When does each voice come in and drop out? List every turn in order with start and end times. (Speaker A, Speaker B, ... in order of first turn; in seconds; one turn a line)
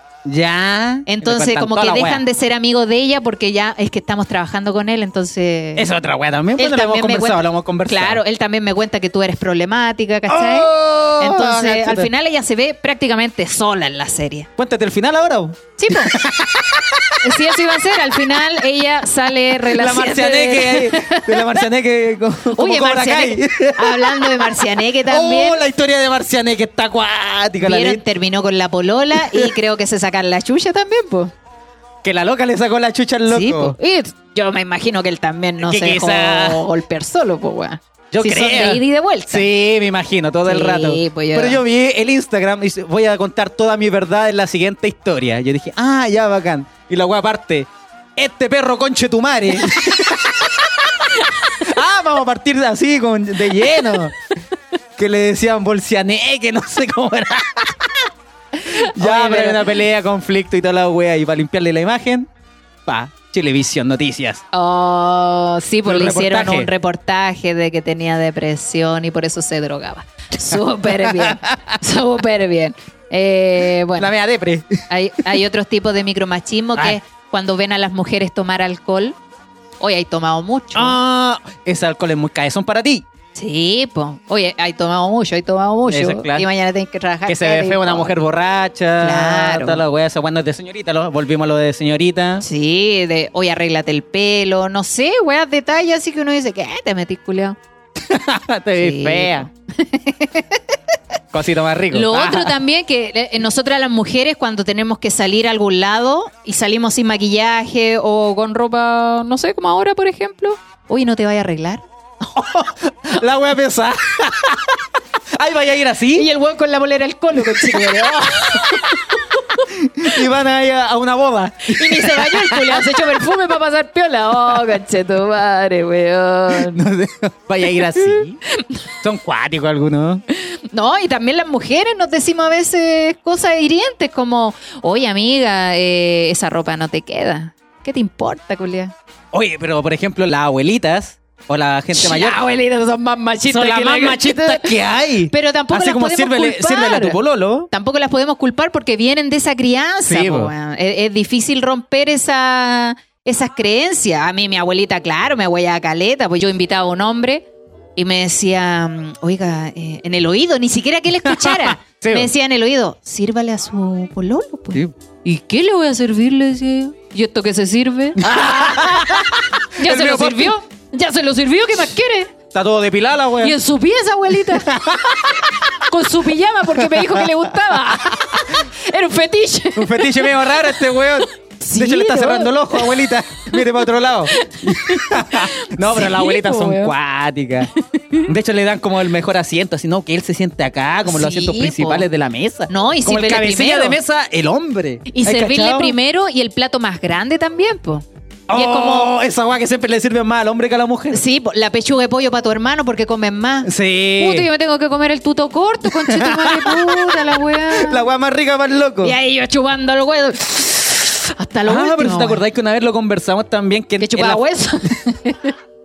Speaker A: 0.2-2.2
Speaker B: 1.1-5.9
Speaker A: 5.8-8.2
Speaker B: 6.6-14.5
Speaker A: 10.3-12.1
Speaker A: 14.6-17.2
Speaker B: 15.8-16.2
Speaker B: 17.2-21.7
Speaker A: 19.6-28.0
Speaker B: 22.5-25.6
Speaker B: 27.6-31.3
Speaker A: 29.2-29.5
Speaker A: 32.0-33.8
Speaker B: 33.3-39.5
Speaker A: 35.6-36.6
Speaker A: 38.1-51.0
Speaker B: 40.5-41.6
Speaker B: 49.6-49.9
Speaker A: 51.5-54.2
Speaker A: 55.0-57.9
Speaker B: 58.6-59.8
Speaker A: 58.7-62.3
Speaker A: 62.9-64.4
Speaker B: 64.5-74.1
Speaker A: 65.8-66.7
Speaker A: 70.9-71.8
Speaker A: 74.0-74.8
Speaker B: 74.9-79.2
Speaker B: 79.8-81.0
Speaker A: 80.8-83.0
Speaker B: 83.3-88.1
Speaker A: 85.9-86.5
Speaker A: 87.3-92.5
Speaker B: 89.0-89.8
Speaker B: 92.4-97.6
Speaker A: 98.0-99.5
Speaker B: 98.8-100.8
Speaker A: 101.3-102.5
Speaker B: 101.9-111.9
Speaker A: 112.3-114.8
Speaker A: 115.4-116.3
Speaker B: 116.1-120.2
Speaker A: 119.7-122.8
Speaker B: 121.7-126.8
Speaker A: 126.6-128.4
Speaker B: 127.8-128.7
Speaker A: 129.0-130.2
Speaker B: 130.3-138.9
Speaker A: 139.3-142.4
Speaker B: 141.9-144.8
Speaker A: 143.5-147.7
Speaker B: 145.3-147.2
Speaker B: 147.7-172.3
Speaker A: 150.1-150.5
Speaker A: 161.2-162.3
Speaker A: 168.2-170.6
Speaker A: 172.5-173.6
Speaker B: 173.4-183.7
Speaker A: 174.6-175.6
Speaker A: 176.9-177.3
Speaker A: 179.8-196.0
Speaker B: 184.3-186.9
Speaker B: 187.8-188.3
Speaker B: 191.1-192.1
Speaker B: 192.7-194.0
Speaker B: 195.1-199.1
Speaker A: 198.5-201.2
Speaker B: 201.1-208.1
Speaker A: 203.6-204.5
Speaker A: 205.9-209.2
Speaker B: 209.0-212.4
Speaker A: 211.7-214.4
Speaker B: 214.0-215.6